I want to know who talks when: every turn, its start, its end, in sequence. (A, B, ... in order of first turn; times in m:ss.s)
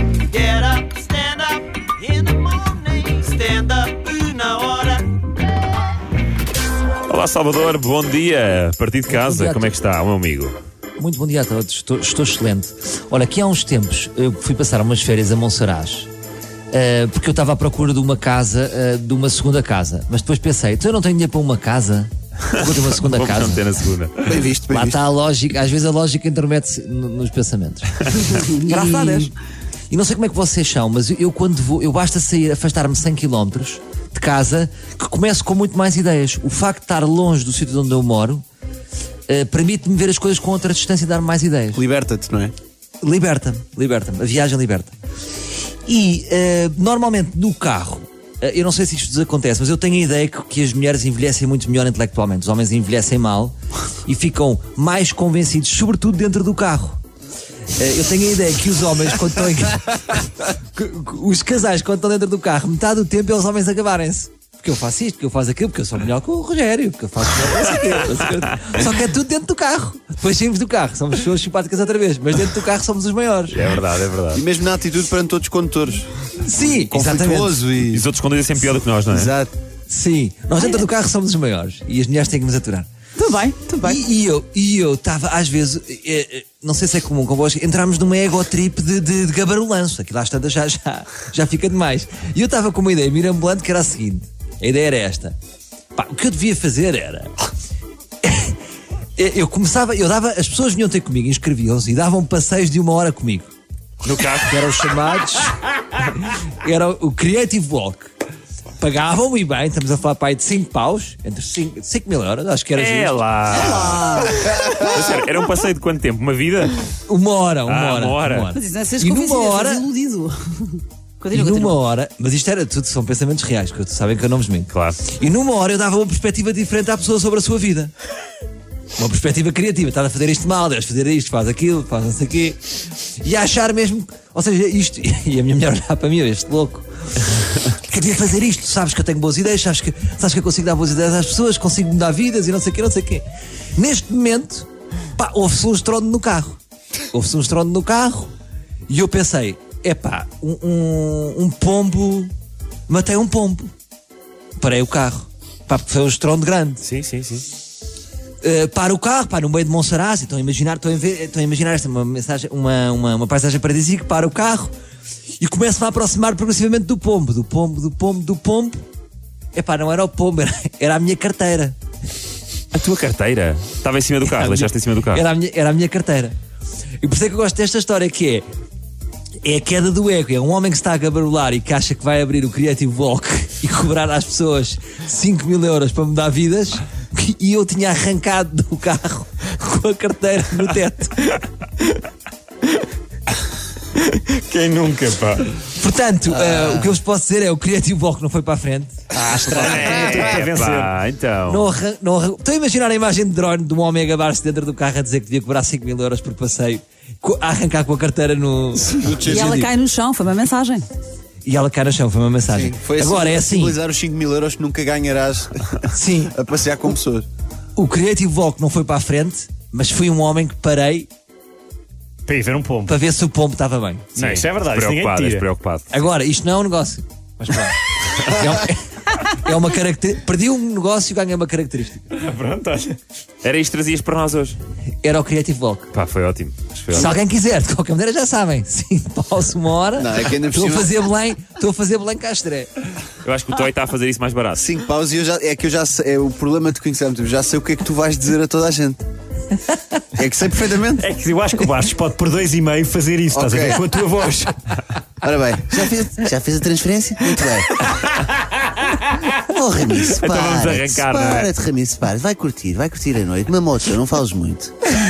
0:00.3-0:05.0 A
0:07.1-0:10.6 B
0:09.1-0:09.8 C
0:11.0-0:16.1 C
0:16.7-0:23.7 C
0:22.5-0:24.4 B
0:24.2-0:25.0 D
0:24.7-0:29.4 C
0:29.9-0:38.4 C
0:39.3-0:41.8 C
0:41.7-0:42.5 D
0:43.0-0:44.9 C
0:45.8-0:57.0 C
0:57.7-1:13.6 C
1:13.5-1:14.4 B
1:14.3-1:18.0 D
1:16.4-1:17.6 C
1:17.9-1:19.3 B
1:19.1-1:19.5 D
1:19.9-1:22.9 C
1:23.2-1:24.0 E
1:23.8-1:35.4 C
1:35.9-1:37.3 C
1:38.2-1:38.6 C
1:39.2-1:43.5 C
1:44.0-1:44.6 B
1:44.4-1:48.1 C
1:48.8-1:53.2 C
1:52.7-1:56.9 B
1:53.5-1:54.4 E
1:57.0-1:59.9 C
1:57.6-1:58.5 B
1:58.5-2:01.8 E
2:01.3-2:07.9 C
2:04.7-2:05.1 B
2:09.0-2:16.9 C
2:17.6-2:26.6 C
2:27.1-2:28.3 C
2:28.9-2:32.3 C
2:32.9-2:33.7 C
2:34.6-2:36.8 C
2:36.8-2:37.4 B
2:38.4-2:44.7 C
2:45.4-2:48.8 C
2:49.5-2:51.8 C
2:52.7-2:55.2 B
2:54.2-2:56.3 C
2:57.0-2:58.4 C
2:59.4-3:11.4 C
3:14.1-3:15.5 F
3:15.7-3:19.0 C
3:19.1-3:20.9 F
3:19.2-3:21.7 B
3:21.4-3:29.7 C
3:28.9-3:29.5 D
3:29.3-3:30.9 E
3:31.4-3:33.8 C
3:32.5-3:37.3 D
3:35.9-3:36.3 C
3:37.8-3:41.1 C
3:42.2-3:42.9 F
3:42.8-3:44.2 C
3:44.2-3:45.5 F
3:44.2-3:45.9 B
3:45.9-3:52.2 C
3:52.1-3:53.0 F
3:53.4-3:54.6 B
3:55.0-3:55.9 C
3:55.9-3:57.1 B
3:56.9-4:02.7 C
4:00.0-4:00.9 D
4:03.2-4:04.7 B
4:04.6-4:09.0 D
4:10.2-4:11.1 D
4:11.0-4:14.6 F
4:13.3-4:13.8 D
4:15.2-4:17.7 D
4:19.4-4:24.7 D
4:20.0-4:21.5 B